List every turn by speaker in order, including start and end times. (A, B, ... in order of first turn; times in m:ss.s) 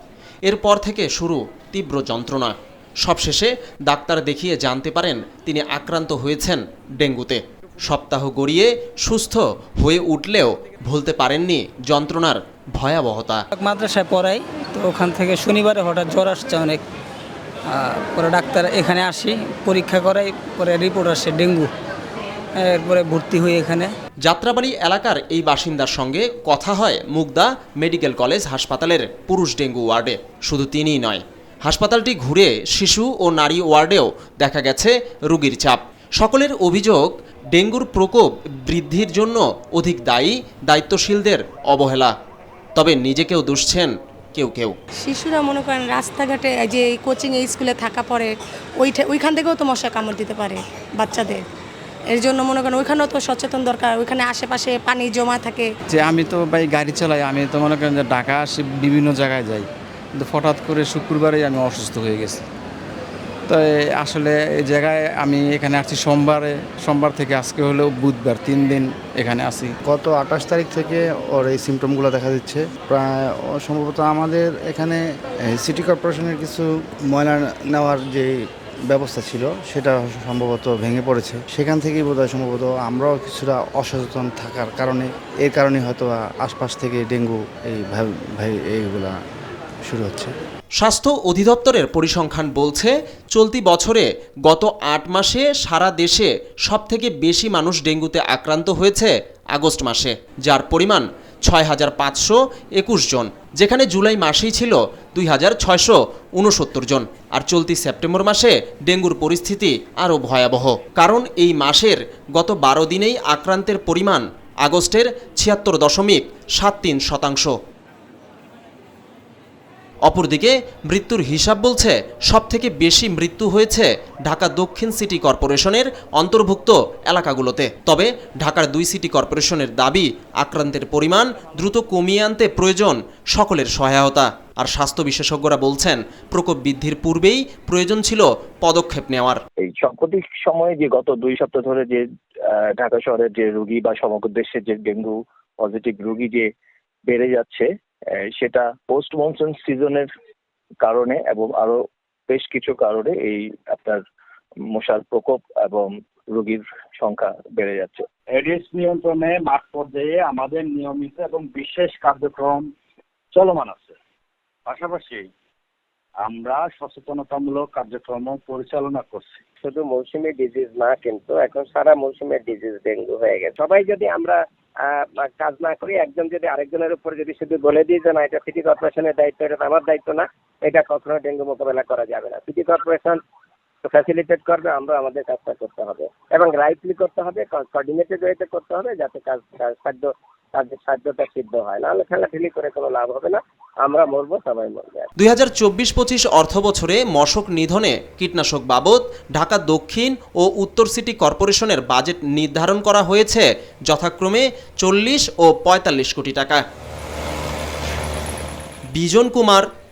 0:00.4-0:13.4 A
0:13.6-0:16.8 B
0:17.7-0:21.7 B
0:22.6-0:23.9 B
0:24.2-0:42.1 A
0:42.8-0:44.8 A
0:45.0-0:51.4 C
0:52.1-0:55.7 C
0:55.9-1:02.4 D
1:03.5-1:09.7 D
1:09.8-1:18.3 E
1:18.9-1:29.2 E
1:29.9-1:30.3 E
1:30.8-1:57.5 A
2:00.1-2:19.4 A
2:19.6-2:26.5 F
2:27.0-2:30.1 F
2:30.8-2:34.0 F
2:34.7-2:38.0 F
2:38.3-2:42.7 G
2:43.3-2:44.0 G
2:44.6-2:45.3 G
2:46.2-2:49.4 G
2:49.6-2:54.4 H
2:55.2-3:00.2 H
3:00.8-3:03.2 H
3:04.0-3:10.0 H
3:10.7-3:13.4 H
3:13.9-3:15.0 H
3:15.2-3:26.6 A
3:28.9-3:29.7 A